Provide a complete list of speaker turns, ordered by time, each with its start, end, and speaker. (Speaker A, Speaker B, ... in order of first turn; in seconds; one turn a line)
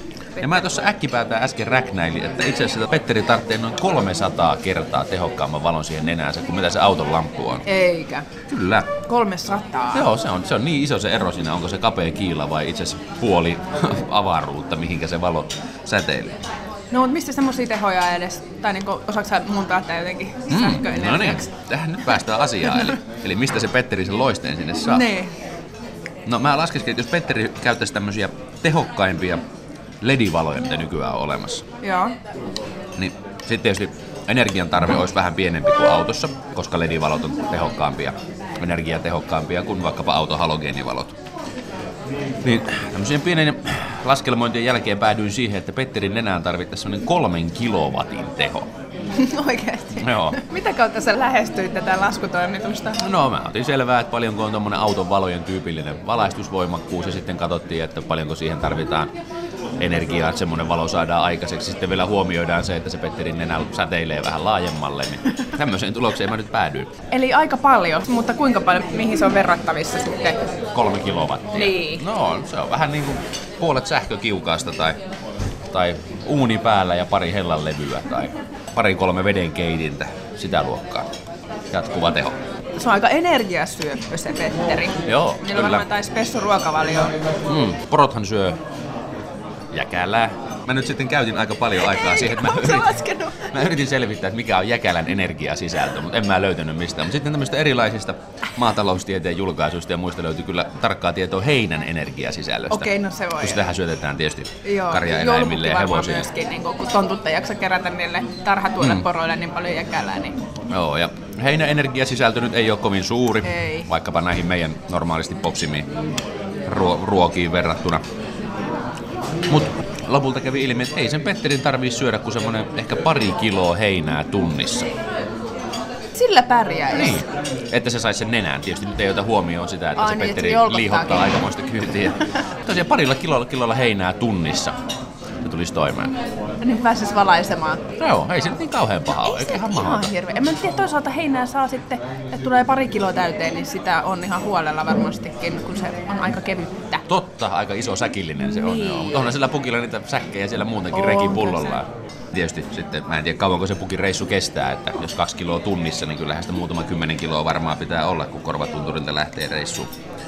Speaker A: 0.4-0.6
Speaker B: 0.4-7.7
Speaker A: 7.7-8.3
Speaker B: 8.5-8.9
Speaker A: 9.0-10.1
Speaker B: 9.9-16.4
Speaker A: 16.9-21.5
Speaker B: 20.5-25.1
Speaker A: 22.6-22.9
Speaker A: 24.8-25.3
Speaker B: 26.2-29.4
Speaker B: 30.0-31.6
Speaker A: 31.8-32.1
Speaker B: 33.0-41.2
Speaker B: 42.4-48.7
Speaker A: 49.1-53.1
Speaker B: 50.0-50.4
Speaker B: 53.0-59.1
Speaker B: 59.8-66.9
Speaker A: 67.1-70.4
Speaker B: 70.7-75.0
Speaker A: 71.5-72.0
Speaker B: 75.7-81.1
Speaker B: 81.7-82.4
Speaker A: 82.8-87.2
Speaker B: 85.1-85.9
Speaker B: 87.5-88.6
Speaker B: 89.7-106.3
Speaker A: 91.8-93.5
Speaker A: 102.7-103.6
Speaker A: 104.6-110.4
Speaker B: 108.8-109.0
Speaker B: 110.7-115.9
Speaker A: 113.4-113.9
Speaker B: 116.7-118.0
Speaker B: 119.5-124.9
Speaker A: 126.1-127.2
Speaker B: 126.9-134.8
Speaker A: 130.0-131.4
Speaker B: 135.4-136.2
Speaker A: 136.6-137.9
Speaker B: 138.0-140.1
Speaker A: 139.2-147.0
Speaker B: 147.1-159.9
Speaker A: 148.4-149.3
Speaker A: 150.9-151.8